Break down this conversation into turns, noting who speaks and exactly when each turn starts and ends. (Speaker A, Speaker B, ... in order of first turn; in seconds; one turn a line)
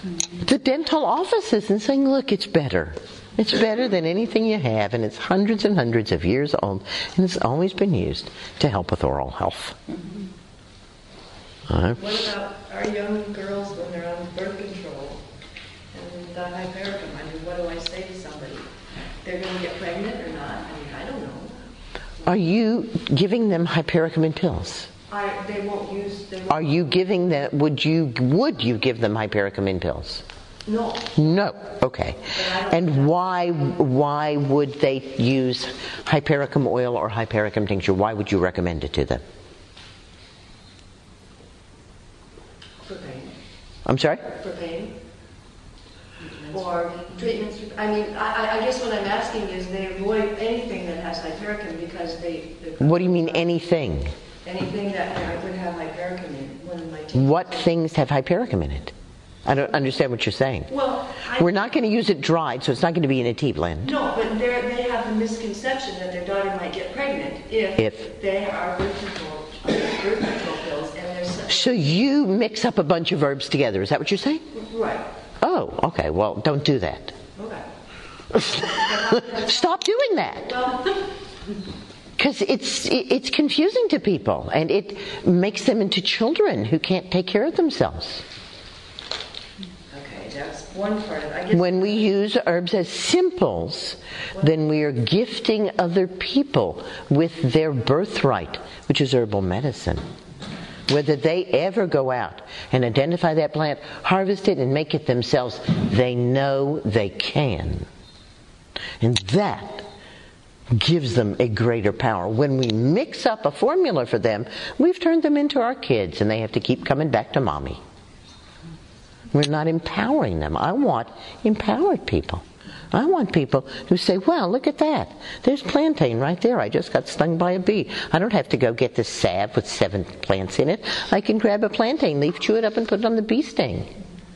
Speaker A: 0.4-9.8
Speaker A: 11.7-12.0
Speaker B: 11.9-15.2
Speaker B: 15.9-18.7
Speaker B: 19.2-21.6
Speaker A: 22.3-24.9
Speaker B: 25.1-26.9
Speaker A: 26.5-30.2
Speaker B: 30.7-31.3
Speaker A: 31.2-39.2
Speaker B: 32.3-33.1
Speaker B: 42.8-43.3
Speaker A: 43.9-44.3
Speaker B: 44.3-45.0
Speaker B: 46.2-53.5
Speaker A: 52.8-54.1
Speaker B: 54.4-57.7
Speaker A: 57.1-58.9
Speaker A: 59.5-60.7
Speaker B: 60.7-61.8
Speaker A: 61.4-63.9
Speaker B: 63.8-72.0
Speaker A: 67.8-68.1
Speaker A: 71.5-74.4
Speaker B: 74.5-75.1
Speaker A: 75.4-77.2
Speaker B: 77.4-77.7
Speaker A: 78.3-80.6
Speaker B: 78.6-79.7
Speaker B: 80.5-80.9
Speaker A: 82.2-88.2
Speaker B: 89.9-92.2
Speaker A: 91.5-100.1
Speaker A: 100.9-107.9
Speaker A: 109.0-109.9
Speaker A: 110.7-117.8
Speaker A: 119.3-133.9